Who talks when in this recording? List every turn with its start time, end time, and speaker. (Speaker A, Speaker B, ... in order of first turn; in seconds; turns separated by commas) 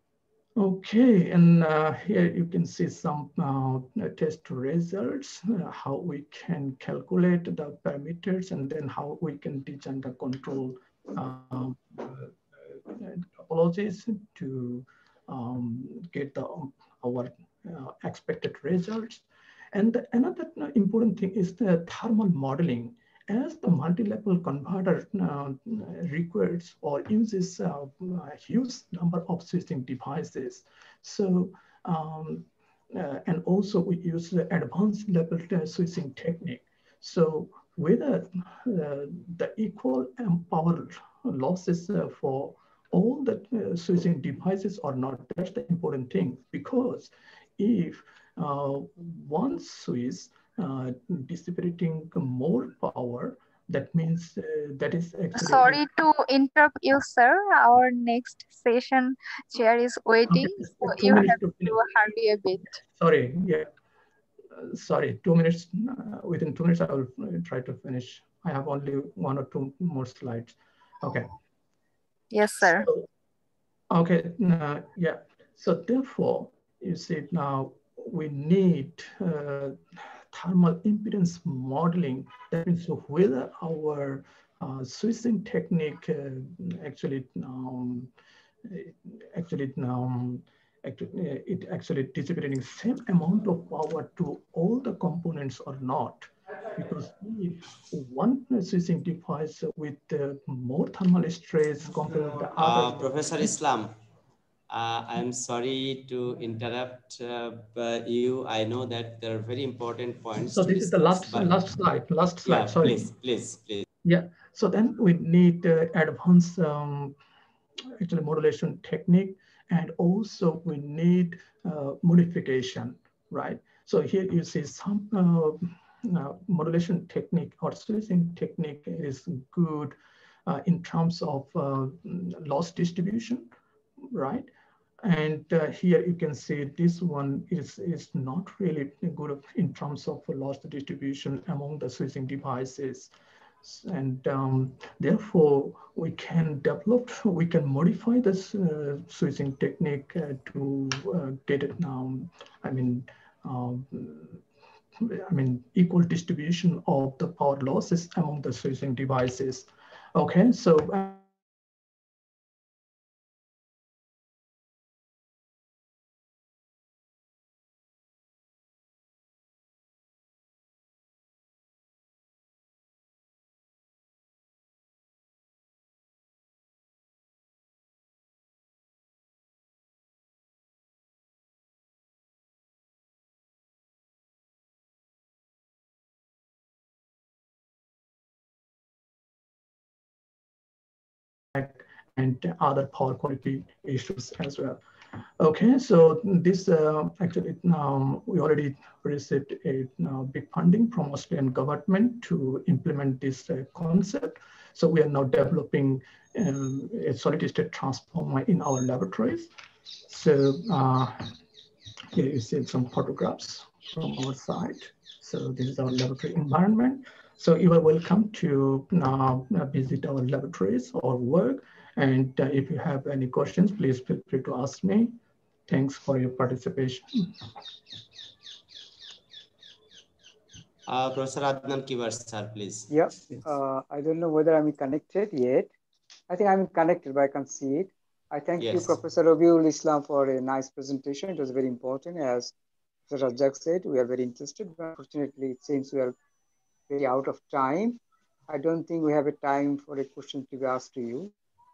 Speaker A: 0.6-55.8, Speaker B: 55.4-62.8, Speaker A: 60.3-61.8, Speaker A: 63.0-63.7, Speaker A: 64.6-71.3, Speaker B: 72.3-72.9, Speaker A: 72.7-73.1, Speaker A: 73.9-88.1, Speaker A: 88.7-103.5, Speaker C: 102.6-103.9, Speaker C: 104.7-111.5, Speaker A: 110.4-113.1, Speaker C: 112.4-113.9, Speaker A: 114.0-117.2, Speaker A: 118.0-129.9, Speaker A: 130.5-133.5, Speaker A: 134.1-134.5, Speaker A: 135.0-143.1, Speaker A: 143.6-154.4, Speaker A: 155.0-161.2, Speaker A: 191.5-194.8, Speaker A: 195.4-209.5, Speaker A: 210.1-211.3, Speaker A: 212.1-227.3, Speaker C: 230.9-232.9, Speaker D: 232.9-235.7, Speaker D: 236.3-242.5, Speaker C: 238.6-239.0, Speaker D: 243.1-246.2, Speaker D: 246.9-251.3